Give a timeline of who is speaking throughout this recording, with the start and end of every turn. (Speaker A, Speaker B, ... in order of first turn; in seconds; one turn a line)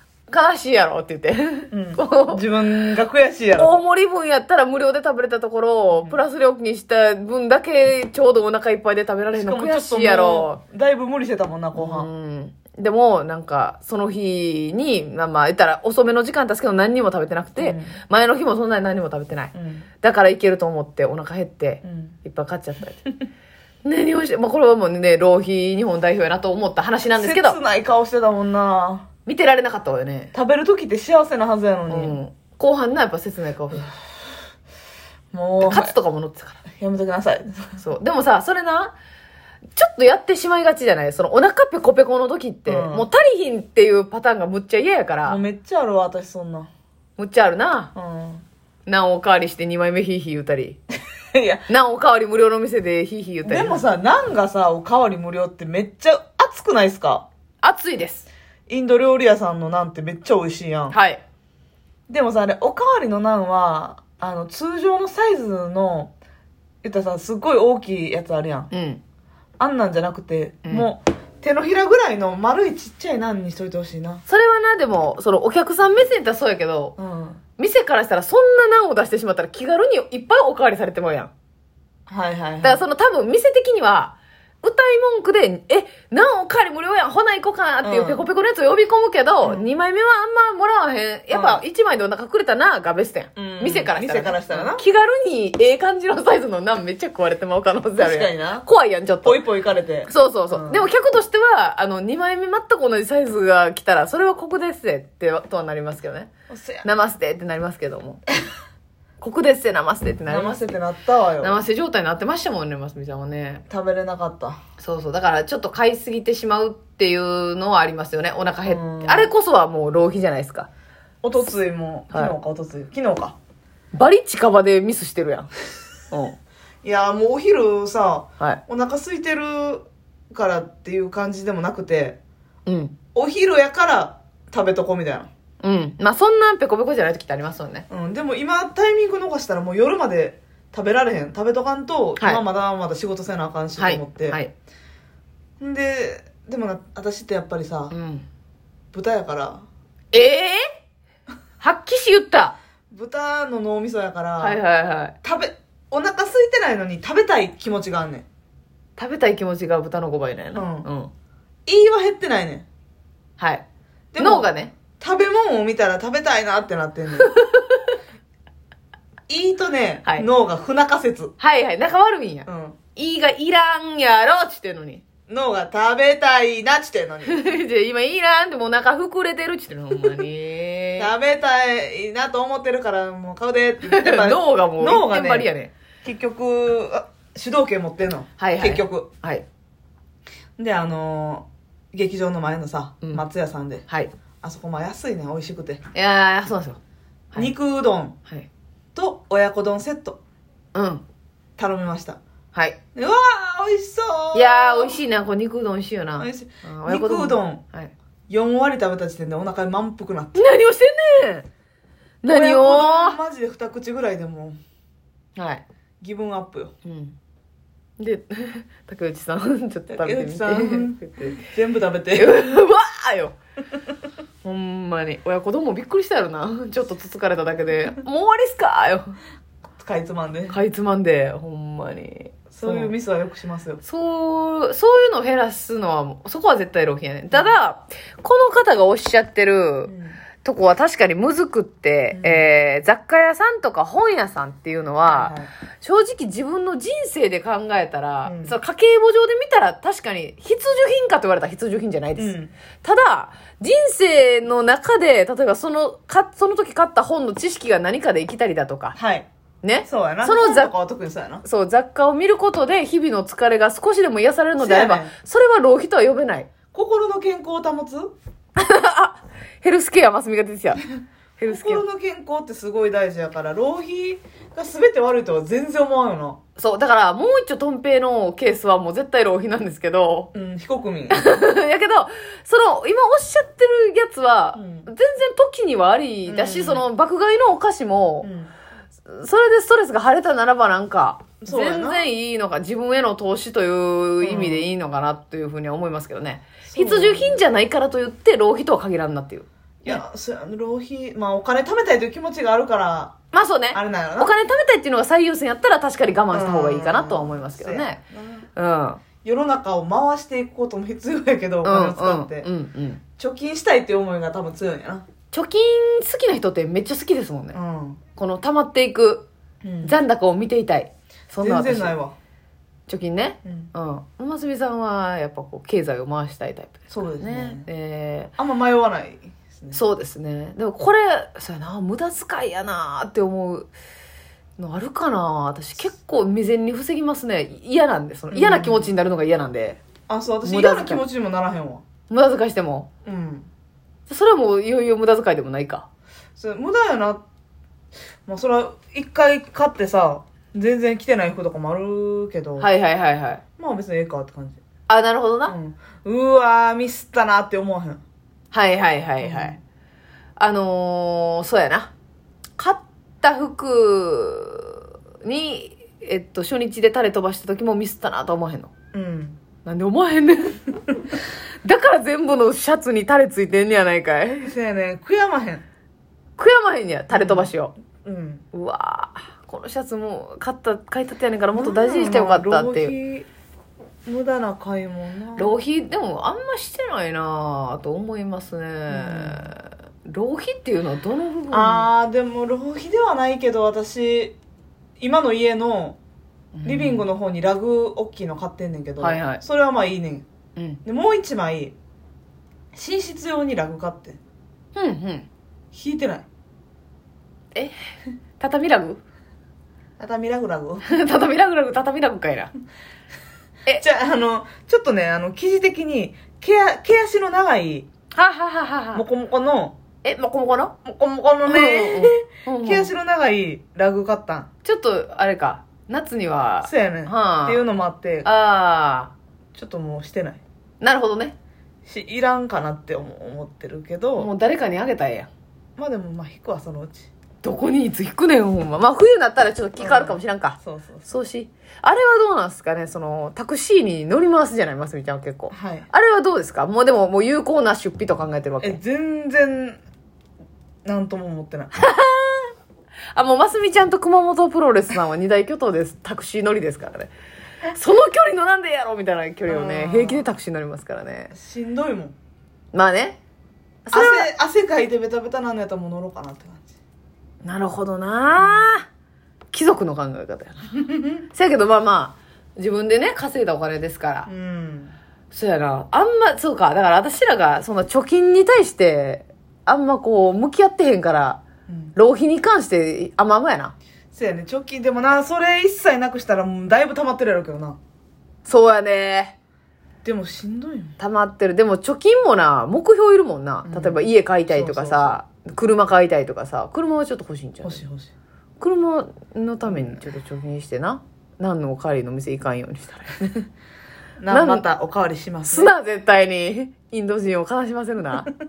Speaker A: 0.3-2.5
Speaker B: 1.7-3.8
Speaker A: 3.6-10.6
Speaker B: 5.9-6.2
Speaker B: 9.3-12.1
Speaker A: 11.8-23.1
Speaker B: 17.6-18.0
Speaker B: 19.5-19.9
Speaker B: 21.8-22.2
Speaker A: 23.8-27.6
Speaker B: 27.1-29.1
Speaker A: 29.2-30.3
Speaker B: 30.3-32.2
Speaker A: 31.9-33.9
Speaker B: 35.3-36.0
Speaker A: 35.6-36.6
Speaker B: 36.8-37.8
Speaker A: 37.8-38.9
Speaker A: 39.8-45.4
Speaker B: 42.7-43.1
Speaker B: 45.2-46.7
Speaker A: 47.2-47.9
Speaker B: 48.0-48.4
Speaker A: 48.9-50.8
Speaker B: 51.3-51.6
Speaker A: 51.7-53.8
Speaker B: 53.4-57.3
Speaker A: 57.6-58.3
Speaker B: 58.7-61.0
Speaker A: 60.9-61.2
Speaker B: 62.1-66.1
Speaker B: 66.8-68.7
Speaker A: 68.7-69.0
Speaker B: 69.6-74.2
Speaker A: 74.3-77.0
Speaker B: 77.0-77.4
Speaker A: 77.6-81.3
Speaker B: 82.1-82.8
Speaker A: 82.6-99.4
Speaker B: 87.8-88.3
Speaker B: 89.4-89.7
Speaker B: 91.3-91.6
Speaker B: 93.3-94.8
Speaker B: 98.0-98.7
Speaker B: 99.2-100.9
Speaker A: 100.1-106.3
Speaker B: 106.5-106.9
Speaker A: 106.8-108.2
Speaker A: 109.2-110.6
Speaker B: 110.3-111.6
Speaker A: 111.4-113.7
Speaker B: 113.7-114.6
Speaker A: 114.8-120.7
Speaker B: 118.7-119.3
Speaker B: 121.2-123.3
Speaker A: 123.9-125.5
Speaker A: 126.1-126.3
Speaker B: 126.8-132.2
Speaker A: 132.7-132.9
Speaker B: 133.2-135.3
Speaker A: 135.6-137.8
Speaker B: 137.9-144.4
Speaker A: 143.8-144.5
Speaker B: 145.6-147.9
Speaker A: 147.9-148.3
Speaker B: 148.9-149.7
Speaker A: 150.1-150.6
Speaker A: 151.6-152.6
Speaker B: 152.9-154.6
Speaker A: 154.4-155.2
Speaker B: 155.2-158.3
Speaker A: 159.0-161.1
Speaker B: 160.5-160.9
Speaker B: 161.7-162.7
Speaker A: 163.4-163.6
Speaker B: 164.1-167.3
Speaker A: 164.2-164.7
Speaker A: 167.2-167.9
Speaker B: 169.3-171.3
Speaker A: 171.4-175.0
Speaker B: 172.5-172.8
Speaker B: 175.3-177.5
Speaker A: 177.2-181.1
Speaker B: 181.0-189.1
Speaker A: 183.8-185.7
Speaker A: 188.4-189.4
Speaker B: 190.6-193.8
Speaker B: 194.4-195.8
Speaker A: 195.9-196.8
Speaker B: 197.3-198.2
Speaker B: 198.9-200.2
Speaker A: 200.7-201.0
Speaker B: 201.6-202.2
Speaker B: 202.9-205.0
Speaker A: 204.3-207.9
Speaker B: 206.2-207.6
Speaker B: 208.3-210.5
Speaker A: 210.3-211.5
Speaker A: 212.2-213.2
Speaker B: 212.3-214.6
Speaker A: 215.3-215.6
Speaker B: 216.0-216.7
Speaker A: 216.8-217.2
Speaker A: 218.0-221.4
Speaker B: 219.9-222.3
Speaker A: 222.2-223.4
Speaker A: 224.4-229.2
Speaker B: 229.8-230.6
Speaker A: 230.5-232.9
Speaker B: 232.5-233.8
Speaker A: 233.8-259.0
Speaker B: 239.8-240.2
Speaker B: 242.1-242.5
Speaker B: 245.1-245.5
Speaker B: 248.2-248.6
Speaker B: 252.2-252.5
Speaker B: 258.9-259.3
Speaker A: 259.6-260.7
Speaker B: 259.9-261.4
Speaker A: 261.4-266.5
Speaker B: 264.6-265.1
Speaker B: 266.7-268.1
Speaker A: 268.6-270.8
Speaker A: 271.4-271.8
Speaker B: 271.5-276.4
Speaker A: 276.6-280.3
Speaker B: 280.3-281.3
Speaker A: 281.1-288.3
Speaker B: 284.5-284.9
Speaker B: 286.2-286.9
Speaker B: 288.2-288.5
Speaker A: 289.1-300.0
Speaker B: 291.4-292.0
Speaker B: 294.2-294.7
Speaker B: 296.6-297.4
Speaker B: 299.8-303.1
Speaker A: 303.3-308.0
Speaker B: 303.7-304.3
Speaker B: 306.3-308.5
Speaker A: 308.6-309.0
Speaker B: 309.2-312.5
Speaker A: 311.6-313.0
Speaker B: 313.2-315.1
Speaker A: 315.3-317.6
Speaker B: 317.5-318.0
Speaker A: 318.2-319.2
Speaker B: 319.6-320.0
Speaker A: 319.8-322.0
Speaker B: 321.4-322.1
Speaker A: 322.9-328.3
Speaker B: 323.4-323.7
Speaker B: 326.9-327.7
Speaker B: 328.4-329.8
Speaker A: 329.7-333.7
Speaker A: 334.6-339.8
Speaker B: 338.3-338.9
Speaker B: 340.1-341.9
Speaker A: 340.4-341.1
Speaker A: 342.1-342.9
Speaker B: 343.1-343.5
Speaker A: 344.1-345.9
Speaker B: 346.4-347.2
Speaker B: 348.2-352.7
Speaker A: 352.6-353.4
Speaker B: 353.6-354.6
Speaker A: 354.9-355.6
Speaker B: 355.5-358.0
Speaker A: 358.5-359.6
Speaker B: 359.2-359.6
Speaker A: 360.4-361.9
Speaker A: 362.6-368.7
Speaker B: 368.9-369.4
Speaker A: 369.6-374.5
Speaker B: 374.4-375.6
Speaker A: 376.4-377.7
Speaker B: 377.1-377.5
Speaker B: 378.0-378.4
Speaker A: 378.5-382.9
Speaker B: 381.6-383.3
Speaker B: 384.1-385.5
Speaker A: 385.4-391.9
Speaker B: 388.9-389.5
Speaker B: 391.5-394.4
Speaker B: 395.0-396.0
Speaker A: 396.5-397.0
Speaker B: 396.6-400.2
Speaker A: 399.0-399.4
Speaker A: 400.6-400.8
Speaker B: 400.9-401.8
Speaker B: 402.7-404.2
Speaker A: 404.8-405.3
Speaker B: 405.7-406.2
Speaker A: 408.4-409.0
Speaker B: 410.0-410.9
Speaker A: 410.9-412.5
Speaker B: 413.8-417.9
Speaker A: 418.1-419.0
Speaker B: 418.9-419.8
Speaker A: 420.0-420.8
Speaker B: 420.9-424.5
Speaker A: 421.4-422.9
Speaker A: 424.6-427.6
Speaker B: 426.6-428.3
Speaker A: 428.2-429.1
Speaker B: 429.6-430.4
Speaker A: 430.8-431.4
Speaker B: 431.9-434.3
Speaker A: 434.2-435.3
Speaker B: 435.8-437.1
Speaker A: 437.4-448.8
Speaker B: 439.8-441.1
Speaker B: 445.5-445.9
Speaker B: 448.6-449.8
Speaker B: 450.9-451.7
Speaker A: 451.7-452.5
Speaker A: 453.1-457.1
Speaker A: 457.7-461.3
Speaker B: 459.5-460.3
Speaker B: 461.3-462.1
Speaker A: 462.7-463.2
Speaker A: 463.9-464.3
Speaker B: 463.9-466.7
Speaker A: 467.4-468.9
Speaker A: 469.5-474.3
Speaker B: 470.9-471.2
Speaker B: 474.2-474.9
Speaker A: 475.3-481.4
Speaker B: 481.7-481.9
Speaker A: 481.9-483.7
Speaker B: 484.1-487.8
Speaker A: 488.4-489.3
Speaker B: 490.0-491.0
Speaker A: 491.0-497.8
Speaker B: 493.6-495.2
Speaker B: 497.6-498.1
Speaker A: 498.6-503.5
Speaker B: 499.6-500.0
Speaker B: 504.2-505.7
Speaker A: 504.3-504.7
Speaker A: 505.5-508.3